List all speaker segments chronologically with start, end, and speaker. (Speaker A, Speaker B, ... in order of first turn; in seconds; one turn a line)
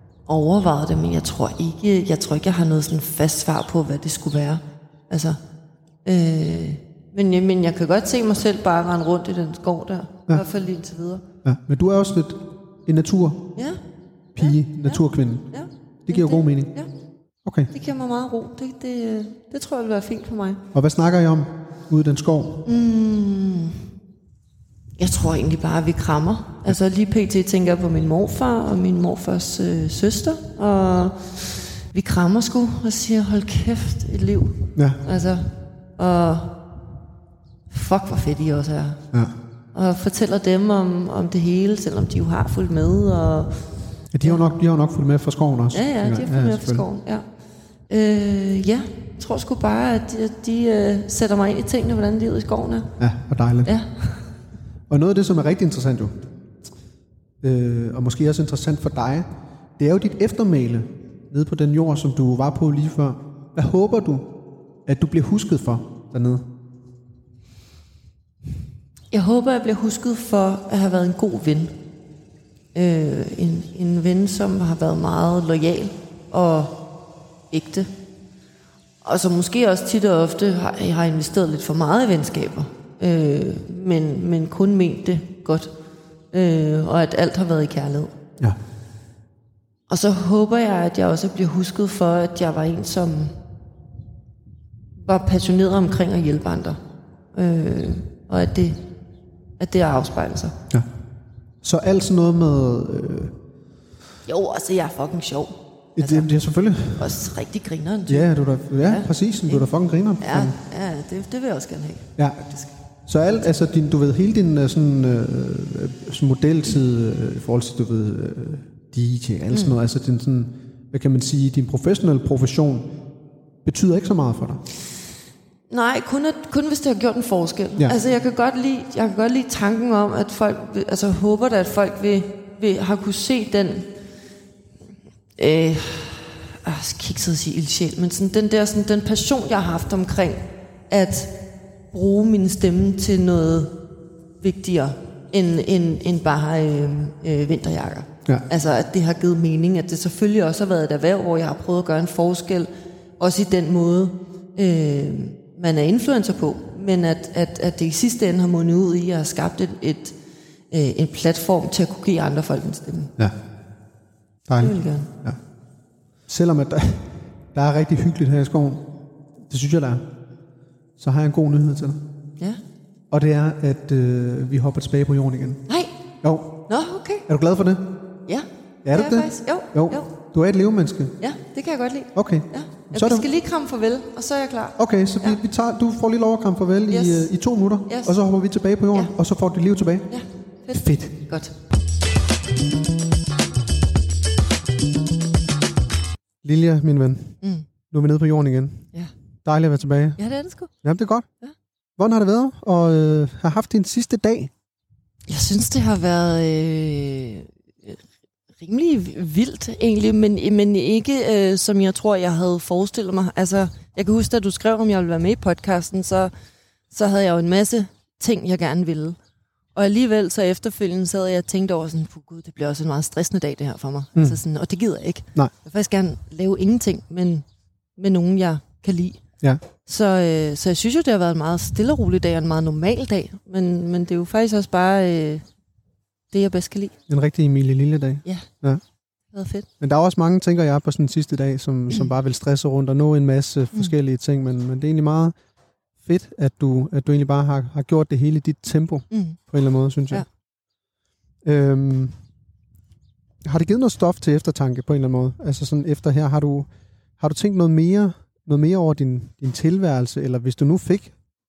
Speaker A: 0.2-5.4
Speaker A: 6.0-11.2
Speaker B: 11.4-13.5
Speaker B: 14.3-15.5
Speaker A: 14.4-16.9
Speaker B: 16.1-16.7
Speaker B: 17.4-17.7
Speaker A: 17.7-20.6
Speaker B: 20.7-22.7
Speaker A: 22.6-23.8
Speaker A: 25.0-36.6
Speaker B: 34.8-35.0
Speaker A: 37.7-39.0
Speaker A: 39.7-43.6
Speaker B: 44.1-46.8
Speaker A: 45.7-47.2
Speaker A: 47.9-52.9
Speaker B: 53.0-53.7
Speaker A: 53.6-54.3
Speaker B: 54.9-56.2
Speaker B: 57.4-59.2
Speaker B: 59.8-64.3
Speaker B: 64.8-66.4
Speaker A: 69.1-71.7
Speaker A: 72.7-76.8
Speaker A: 77.5-77.9
Speaker A: 79.0-85.7
Speaker A: 86.3-88.2
Speaker A: 89.9-93.3
Speaker A: 95.0-96.8
Speaker A: 97.3-98.8
Speaker A: 99.6-100.5
Speaker B: 101.6-103.3
Speaker A: 104.2-106.3
Speaker B: 106.0-107.2
Speaker A: 107.0-108.3
Speaker B: 108.1-110.6
Speaker A: 108.8-109.7
Speaker A: 110.2-112.7
Speaker B: 112.2-112.5
Speaker B: 113.0-122.9
Speaker A: 119.5-119.8
Speaker B: 123.6-124.6
Speaker A: 125.7-133.9
Speaker A: 135.3-141.4
Speaker A: 141.9-143.7
Speaker A: 144.4-152.7
Speaker A: 153.2-160.2
Speaker A: 160.7-163.1
Speaker B: 164.5-165.4
Speaker A: 164.6-165.1
Speaker B: 166.3-168.9
Speaker B: 169.5-170.1
Speaker B: 171.0-172.0
Speaker B: 173.1-175.7
Speaker B: 176.2-176.6
Speaker A: 176.7-177.2
Speaker B: 177.3-177.9
Speaker A: 178.2-180.1
Speaker B: 178.8-181.1
Speaker A: 181.2-185.4
Speaker B: 182.1-183.3
Speaker B: 184.8-190.1
Speaker A: 186.9-187.3
Speaker A: 187.9-188.1
Speaker A: 190.1-191.5
Speaker B: 190.7-191.1
Speaker B: 196.4-197.4
Speaker A: 197.4-197.7
Speaker B: 197.9-198.9
Speaker B: 199.4-200.2
Speaker A: 200.2-200.7
Speaker B: 200.8-201.3
Speaker B: 202.0-204.5
Speaker A: 205.3-208.0
Speaker A: 208.6-216.3
Speaker A: 216.9-219.2
Speaker A: 219.7-227.4
Speaker A: 228.0-229.2
Speaker A: 229.8-235.4
Speaker A: 236.3-236.9
Speaker B: 237.1-238.8
Speaker A: 239.3-239.7
Speaker B: 239.8-245.3
Speaker B: 246.0-250.2
Speaker A: 249.1-249.4
Speaker B: 251.4-252.1
Speaker B: 253.4-256.7
Speaker B: 257.2-261.1